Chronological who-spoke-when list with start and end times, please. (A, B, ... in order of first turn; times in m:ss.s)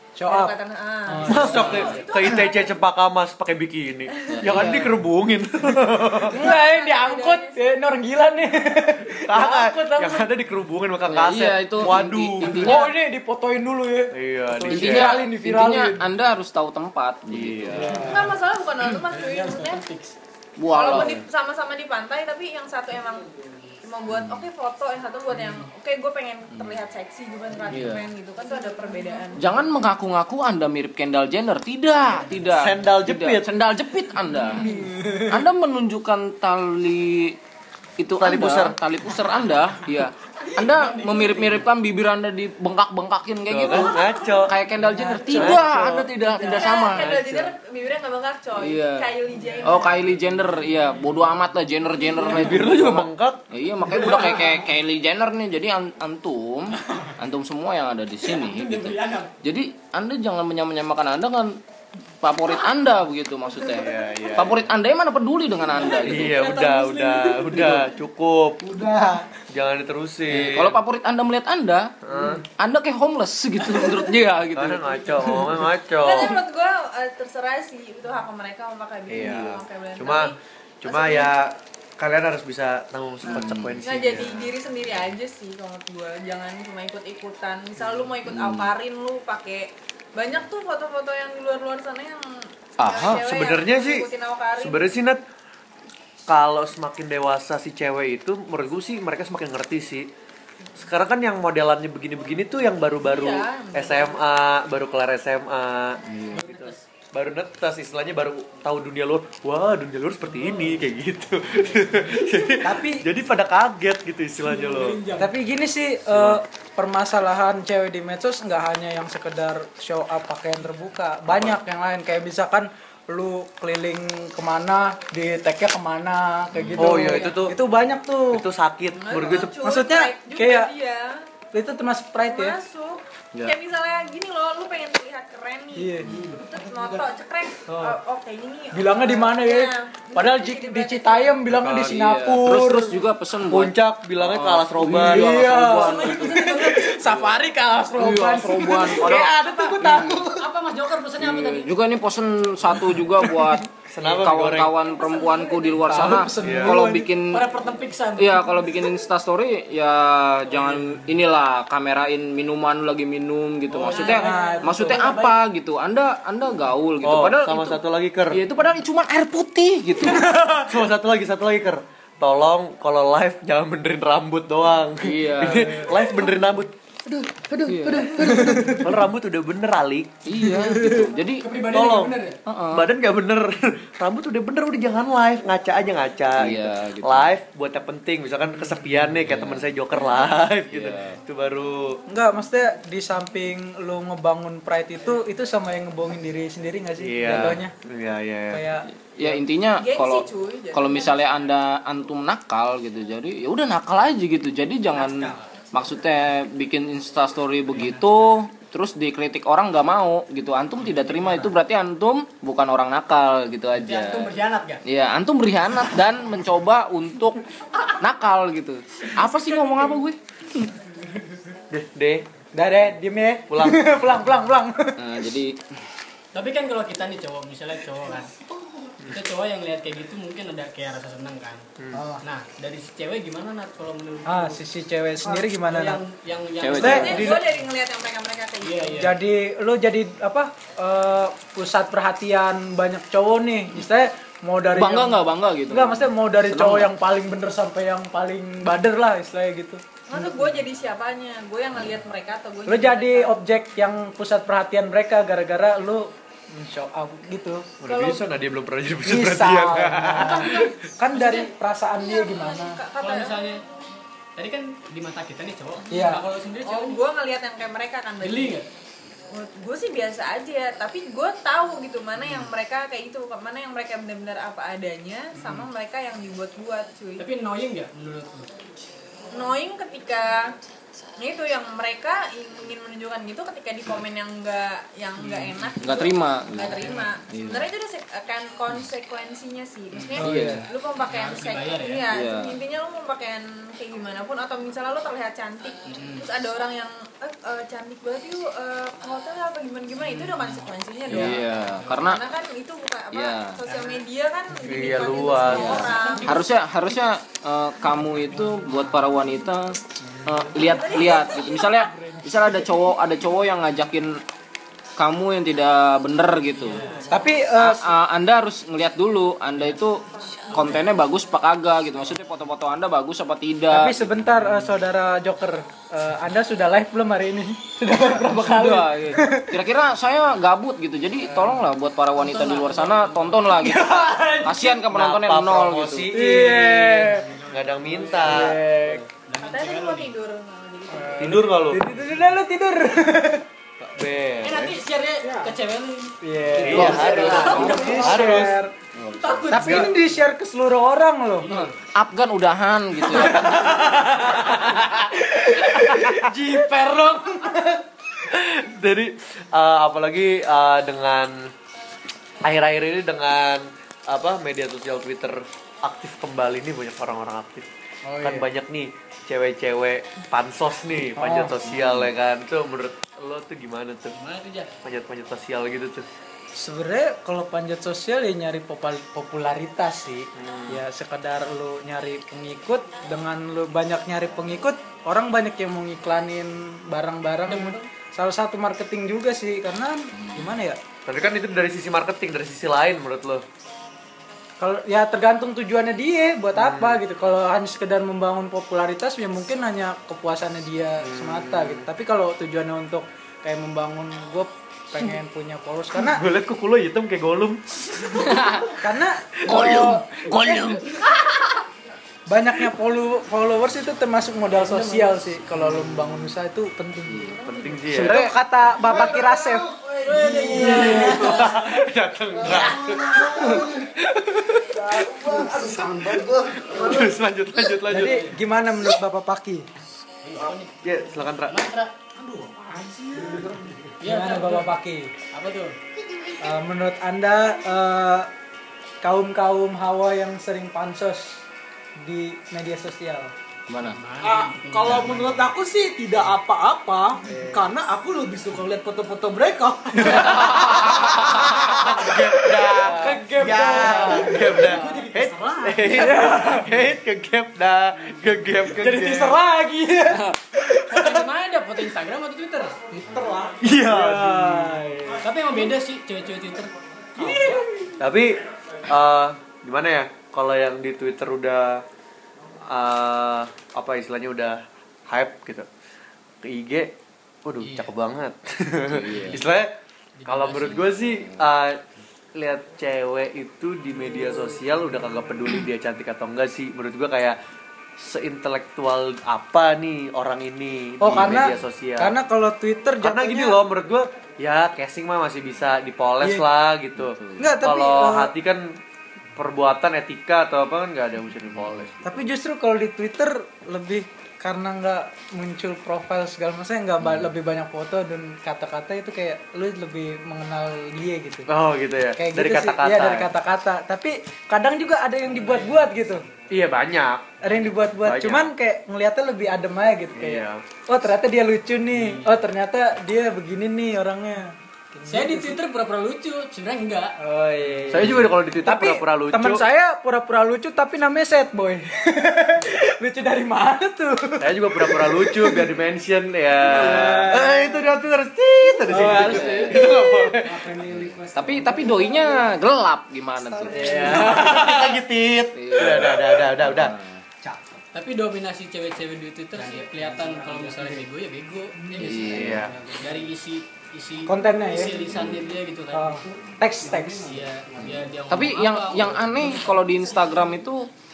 0:00.2-0:00.6 A
0:00.3-0:02.8 B
0:01.1-0:01.7 A
0:01.3-0:06.4 C
0:01.3-0:01.8 D
0:01.5-0:02.0 E
0:04.2-0:04.6 B
0:04.3-0:05.0 E
0:06.2-0:07.6 B
0:06.3-0:10.3 A
0:09.3-0:12.8 C
0:11.1-0:12.9 E
0:12.5-0:16.0 A
0:14.1-0:15.2 C
0:14.7-0:18.1 E
0:17.3-0:18.1 C
0:17.8-0:18.3 A
0:18.0-0:19.8 B
0:18.8-0:20.2 D
0:20.6-0:21.2 E
0:20.7-0:23.3 B
0:23.8-0:29.4 B
0:24.2-0:24.4 E
0:25.4-0:25.7 D
0:27.7-0:28.1 E
0:29.4-0:34.7 E
0:32.5-0:33.5 C
0:34.6-0:35.4 A
0:34.6-0:34.9 D
0:35.2-0:37.4 E
0:38.0-0:47.2 E
0:38.2-0:38.8 C
0:40.6-0:41.7 D
0:43.5-0:44.5 C
0:44.8-0:45.6 A
0:45.3-0:46.1 C
0:46.3-0:50.0 B
0:46.7-0:47.5 C
0:48.6-1:01.6 E
0:52.2-0:53.4 C
0:58.2-0:59.3 D
1:02.2-1:06.5 E
1:03.6-1:04.7 C
1:05.7-1:07.8 D
1:06.0-1:08.6 C
1:08.6-1:09.2 F
1:09.5-1:10.8 C
1:10.3-1:12.0 E
1:12.0-1:12.4 C
1:12.5-1:15.4 E
1:14.6-1:16.4 C
1:16.0-1:21.3 B
1:19.1-1:24.5 C
1:23.3-1:34.9 B
1:23.3-1:23.7 E
1:28.2-1:28.7 E
1:32.8-1:33.2 E
1:33.1-1:35.2 C
1:36.3-1:40.1 C
1:40.8-1:55.0 C
1:43.0-1:44.2 B
1:46.1-1:46.4 E
1:46.4-1:46.8 D
1:52.6-1:53.0 A
1:54.4-1:55.3 D
1:55.2-2:08.4 A
1:56.1-1:56.4 C
2:01.3-2:01.6 C
2:06.5-2:07.0 E
2:06.8-2:07.6 C
2:07.0-2:07.4 D
2:08.3-2:09.6 C
2:09.0-2:11.2 B
2:09.6-2:10.7 A
2:11.5-2:12.6 A
2:12.2-2:21.5 B
2:15.8-2:16.3 A
2:16.1-2:16.4 D
2:18.7-2:23.0 A
2:21.5-2:22.0 C
2:21.7-2:27.2 E
2:23.5-2:25.5 C
2:24.9-2:30.4 A
2:25.7-2:27.1 D
2:28.0-2:30.3 E
2:30.4-2:31.7 D
2:31.2-2:37.4 E
2:32.7-2:33.6 A
2:33.9-2:34.8 C
2:35.0-2:35.9 B
2:35.1-2:36.4 D
2:35.9-2:37.1 A
2:36.4-2:36.8 C
2:37.3-2:38.7 D
2:38.2-2:50.3 E
2:43.7-2:45.0 D
2:43.9-2:45.4 A
2:43.9-2:44.3 B
2:47.0-2:48.4 C
2:50.1-2:50.7 A
2:50.6-3:00.1 C
2:55.0-2:55.9 E
2:57.7-2:58.5 E
2:58.2-2:58.9 A
3:00.2-3:01.4 E
3:00.4-3:01.1 A
3:01.2-3:02.4 D
3:01.6-3:02.2 C
3:02.5-3:02.9 E
3:02.7-3:12.0 C
3:06.4-3:07.3 E
3:09.3-3:09.7 E
3:10.7-3:11.2 E
3:12.1-3:17.7 A
3:17.0-3:18.7 C
3:18.5-3:19.4 A
3:19.2-3:34.3 E
3:19.8-3:21.2 B
3:24.9-3:25.5 D
3:31.0-3:31.5 D
3:33.7-3:34.8 D
3:34.8-3:40.7 E
3:39.5-3:40.0 D
3:41.7-3:42.3 C
3:42.5-3:45.0 A
3:43.5-3:43.9 C
3:45.0-3:45.6 E
3:46.3-3:48.3 D
3:49.1-3:51.6 D
3:51.8-3:52.0 C
3:51.9-3:52.2 A
3:52.2-3:54.6 D
3:54.3-3:56.0 A
3:55.2-3:57.4 D
3:56.6-3:57.3 E
3:56.8-3:59.0 B
3:56.8-3:57.5 A
3:58.6-3:59.2 D
3:58.9-4:10.4 A
4:04.8-4:06.9 E
4:10.1-4:13.4 B
4:12.7-4:17.7 A
4:17.8-4:20.7 C
4:17.9-4:18.2 B
4:19.0-4:22.8 A
4:21.1-4:23.4 B
4:23.0-4:23.6 D
4:24.4-4:27.0 D
4:25.9-4:26.2 A
4:26.6-4:28.6 B
4:28.2-4:28.7 D
4:29.3-4:37.3 B
4:32.2-4:32.5 D
4:35.4-4:35.7 D
4:37.2-4:38.5 D
4:39.3-4:40.5 B
4:41.2-5:06.4 B
4:45.2-4:45.6 D
4:45.8-4:47.7 E
4:46.8-4:47.1 D
4:49.9-4:50.2 D
4:50.2-4:50.6 A
4:50.2-4:50.7 E
4:51.0-4:52.1 D
4:52.1-4:52.6 E
4:55.9-4:56.3 D
5:00.1-5:02.0 D
5:01.1-5:02.2 E
5:03.1-5:03.6 E
5:03.7-5:04.0 D
5:04.6-5:05.9 C
5:05.4-5:06.4 D
5:05.5-5:14.2 E
5:10.1-5:10.5 A
5:10.5-5:11.8 B
5:15.0-5:16.9 E
5:16.7-5:17.1 D
5:17.1-5:17.9 A
5:17.6-5:24.0 E
5:20.5-5:20.8 D
5:23.7-5:29.6 A
5:28.1-5:36.1 E
5:32.2-5:33.6 D
5:33.6-5:34.7 A
5:34.9-5:36.8 C
5:36.1-5:37.3 A
5:36.4-5:38.6 D
5:37.5-5:38.6 C
5:38.2-5:39.0 A
5:39.1-5:40.1 D
5:39.4-5:41.5 B
5:40.9-5:43.4 A
5:41.2-5:41.8 C
5:43.8-5:44.8 C
5:44.4-5:48.5 D
5:46.2-5:48.7 A
5:46.6-5:48.6 C
5:46.7-5:48.0 E
5:47.6-5:48.0 F
5:49.1-5:49.4 E
5:49.1-5:50.0 D
5:49.5-5:51.5 A
5:49.6-5:49.9 C
5:51.4-5:51.7 D
5:51.5-5:53.8 E
5:53.1-5:57.8 A
5:54.2-5:56.6 C
5:58.2-6:01.5 C
6:02.4-6:07.7 C
6:08.1-6:08.5 A
6:08.2-6:14.2 C
6:11.2-6:11.6 A
6:11.8-6:12.1 E
6:14.2-6:14.7 D
6:14.8-6:16.1 C
6:16.6-6:30.8 A
6:20.4-6:20.8 C
6:27.4-6:27.9 D
6:31.1-6:33.4 C
6:34.6-6:46.2 A
6:36.5-6:37.0 C
6:41.0-6:41.9 C
6:46.0-6:48.8 C
6:48.2-6:48.7 E
6:48.8-6:50.8 A
6:49.5-6:51.6 E
6:49.5-6:49.9 C
6:52.3-6:57.4 A
6:54.5-6:55.2 D
6:57.4-6:58.3 C
6:57.9-6:58.4 E
6:58.0-7:01.5 A
6:58.8-7:01.4 F
7:00.0-7:01.6 D
7:00.5-7:08.3 C
7:02.4-7:03.9 F
7:04.8-7:07.2 F
7:07.8-7:09.7 A
7:07.9-7:08.4 D
7:10.2-7:13.4 D
7:10.4-7:11.6 C
7:12.6-7:13.9 F
7:14.0-7:14.8 D
7:14.0-7:15.1 A
7:15.3-7:15.8 D
7:16.4-7:18.3 A
7:19.0-7:21.4 A
7:22.0-7:23.3 A
7:23.7-7:24.0 E
7:24.0-7:25.5 D
7:24.2-7:31.2 F
7:30.0-7:39.4 C
7:30.0-7:32.0 A
7:32.6-7:34.7 A
7:33.4-7:35.9 F
7:35.8-7:36.8 A
7:38.7-7:41.3 A
7:40.7-7:42.8 D
7:42.9-7:43.7 F
7:43.6-7:44.9 C
7:43.8-7:45.2 A
7:45.2-7:47.6 D
7:47.2-7:48.0 A
7:48.0-7:51.8 C
7:52.7-7:55.7 C
7:56.4-7:56.9 C
7:57.4-7:59.8 C
7:57.6-7:57.9 D
7:58.9-7:59.4 E
8:00.2-8:01.1 D
8:00.3-8:01.8 C
8:02.4-8:07.4 C
8:08.0-8:12.2 C
8:11.0-8:13.6 A
8:11.1-8:11.4 E
8:13.0-8:18.7 C
8:16.2-8:16.5 A
8:17.0-8:17.4 E
8:17.4-8:18.3 A
8:19.4-8:22.1 C
8:22.0-8:31.5 A
8:31.5-8:33.3 C
8:32.2-8:36.3 A
8:35.3-8:36.0 D
8:36.5-8:38.5 C
8:37.4-8:45.6 A
8:40.2-8:40.6 C
8:41.9-8:42.4 D
8:45.1-8:47.2 D
8:47.2-8:55.7 A
8:47.9-8:49.6 C
8:54.4-9:00.8 C
8:56.6-8:57.9 A
8:58.8-9:02.3 A
8:58.9-9:00.0 F
8:59.0-8:59.8 E
9:00.8-9:02.4 F
9:01.3-9:04.7 E
9:03.6-9:04.4 F
9:03.7-9:07.0 C
9:03.7-9:04.8 A
9:05.6-9:07.2 E
9:07.4-9:07.8 F
9:07.9-9:16.2 D
9:09.6-9:11.0 F
9:11.8-9:13.3 F
9:12.0-9:12.7 E
9:12.3-9:12.8 C
9:14.3-9:15.1 A
9:15.9-9:17.3 A
9:16.8-9:17.9 F
9:17.2-9:19.6 D
9:17.8-9:20.9 E